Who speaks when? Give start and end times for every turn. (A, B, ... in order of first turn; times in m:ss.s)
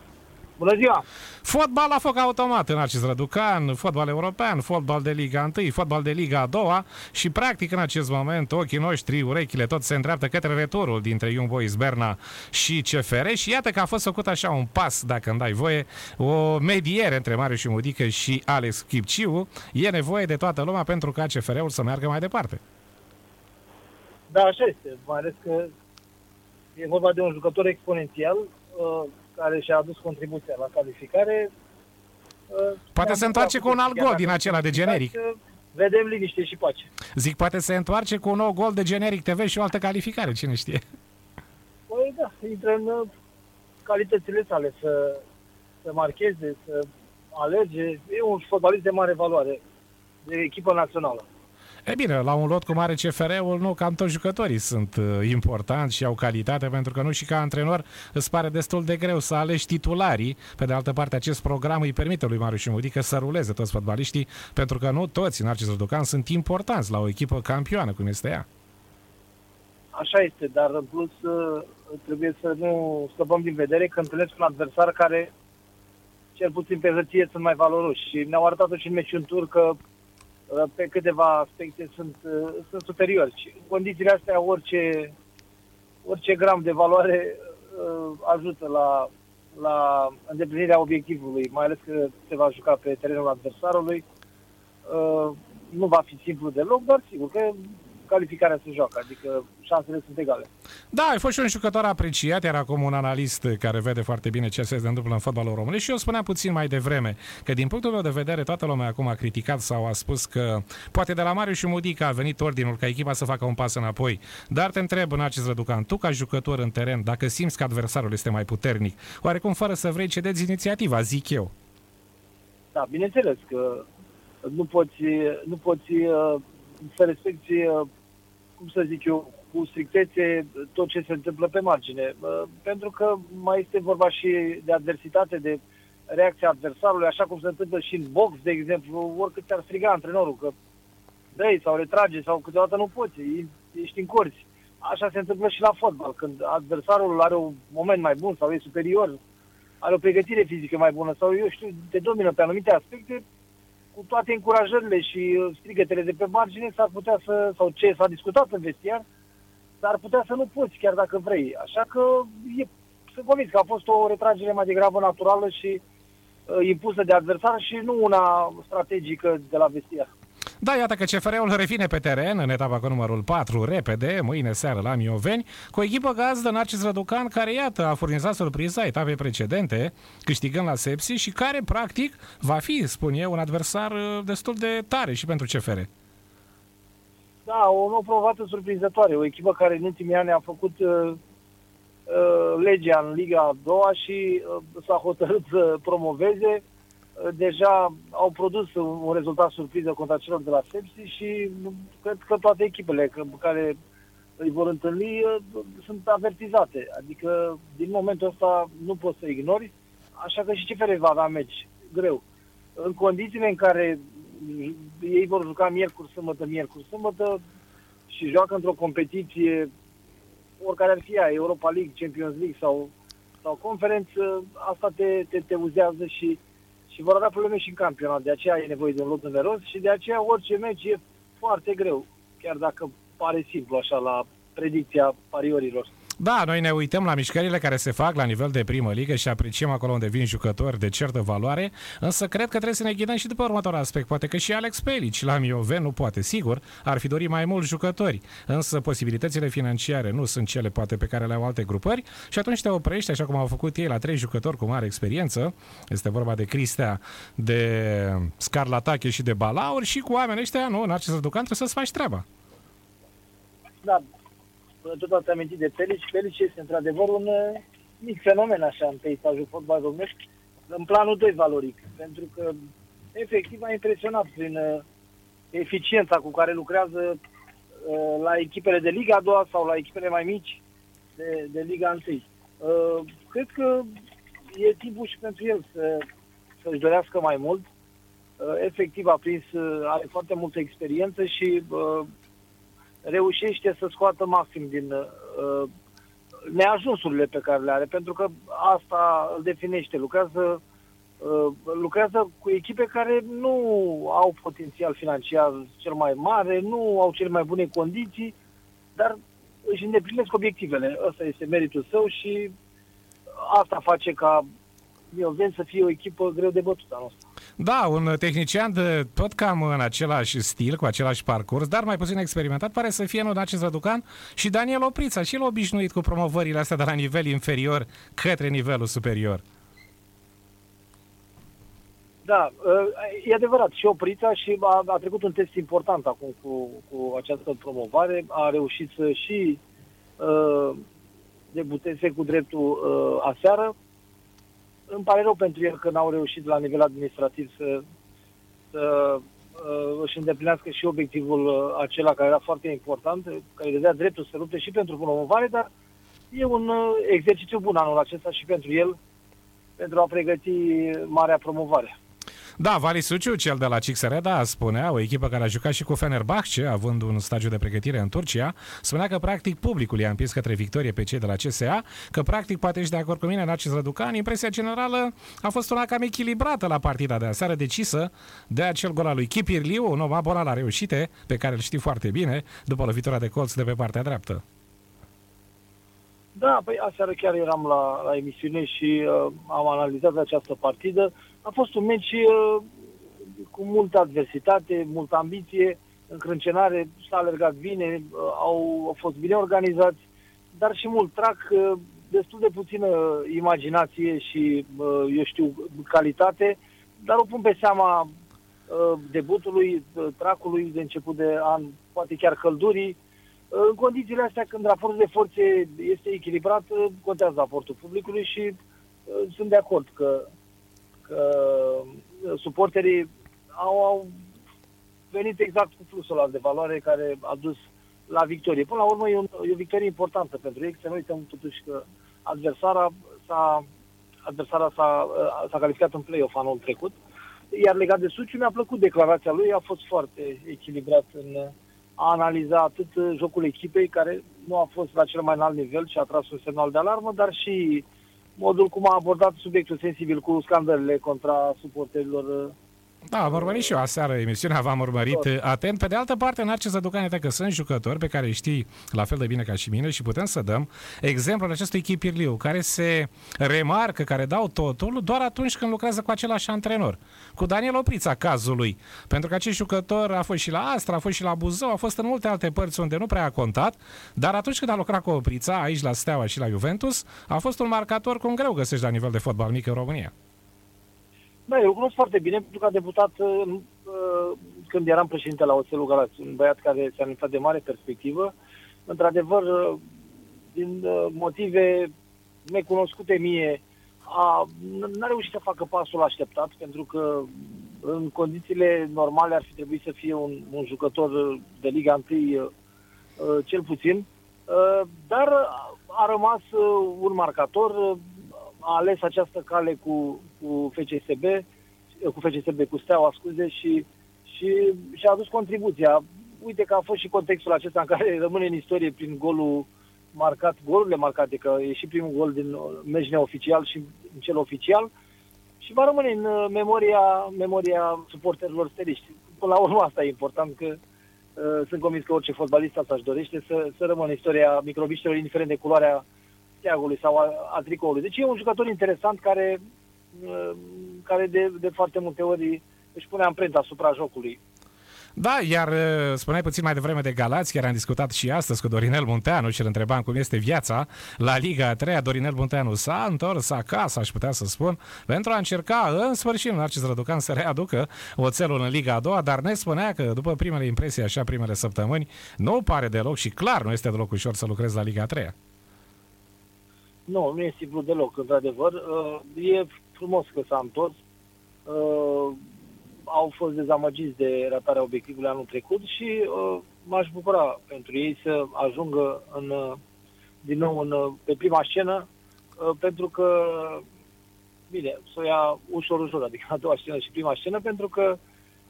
0:00.6-0:01.0 A
0:01.4-0:22.6 B
0:24.3-0:25.7 A
0:26.8-0:31.5 A
0:32.5-0:36.9 A
0:32.9-0:35.1 B
0:37.2-0:40.8 B
0:41.9-0:43.1 A
0:43.8-0:45.2 A
0:45.8-0:49.6 A
0:50.2-0:51.2 A
0:51.8-1:08.4 B
1:09.9-1:15.3 A
1:16.4-1:19.8 A
1:20.5-1:25.1 A
1:26.0-1:34.0 A
1:34.8-1:40.5 A
1:40.9-2:01.5 B
2:02.7-2:03.8 A
2:04.4-2:07.9 A
2:08.6-2:20.5 A
2:21.3-2:29.2 A
2:29.8-2:33.2 A
2:33.9-2:39.0 A
2:39.8-2:45.8 A
2:46.5-2:50.1 A
2:50.6-3:05.9 B
3:07.4-3:11.2 A
3:12.1-3:16.6 A
3:17.2-3:23.8 A
3:24.4-3:32.2 A
3:32.8-3:37.4 A
3:38.1-3:39.7 A
3:40.6-3:42.9 A
3:43.4-3:55.9 A
3:56.2-4:22.2 B
4:24.8-4:30.1 A
4:30.7-4:32.6 A
4:33.1-4:34.8 A
4:35.5-4:37.2 A
4:37.8-4:40.6 A
4:41.2-4:43.9 A
4:44.5-4:46.0 A
4:46.6-4:47.6 A
4:48.4-4:52.1 A
4:53.0-4:55.7 A
4:56.5-5:00.6 A
5:01.2-5:08.3 A
5:08.9-5:12.5 A
5:13.4-5:14.4 A
5:15.1-5:17.2 A
5:17.6-5:29.4 B
5:32.2-5:39.6 A
5:40.2-5:40.8 A
5:41.5-5:43.7 A
5:44.9-5:47.8 A
5:48.7-5:55.7 A
5:56.3-5:59.0 A
5:59.8-6:01.9 A
6:02.6-6:24.4 B
6:26.3-6:40.0 A
6:40.5-6:48.1 A
6:48.7-6:53.0 A
6:53.5-6:58.6 A
6:59.1-7:00.3 A
7:01.0-7:04.2 A
7:05.1-7:07.6 A
7:08.1-7:13.6 A
7:14.2-7:17.0 A
7:17.5-7:27.8 A
7:28.4-7:32.5 A
7:33.1-8:00.1 B
8:01.5-8:08.3 A
8:08.9-8:09.8 A
8:10.5-8:11.9 A
8:12.4-8:22.5 A
8:23.2-8:31.4 A
8:32.0-8:44.9 A
8:45.6-8:50.8 A
8:51.4-8:56.0 A
8:56.6-8:59.6 A
9:00.1-9:04.4 A
9:05.2-9:25.3 B
9:27.1-9:31.0 A
9:31.6-9:32.4 A
9:33.1-9:39.8 A
9:40.4-9:43.8 A
9:44.7-9:48.2 A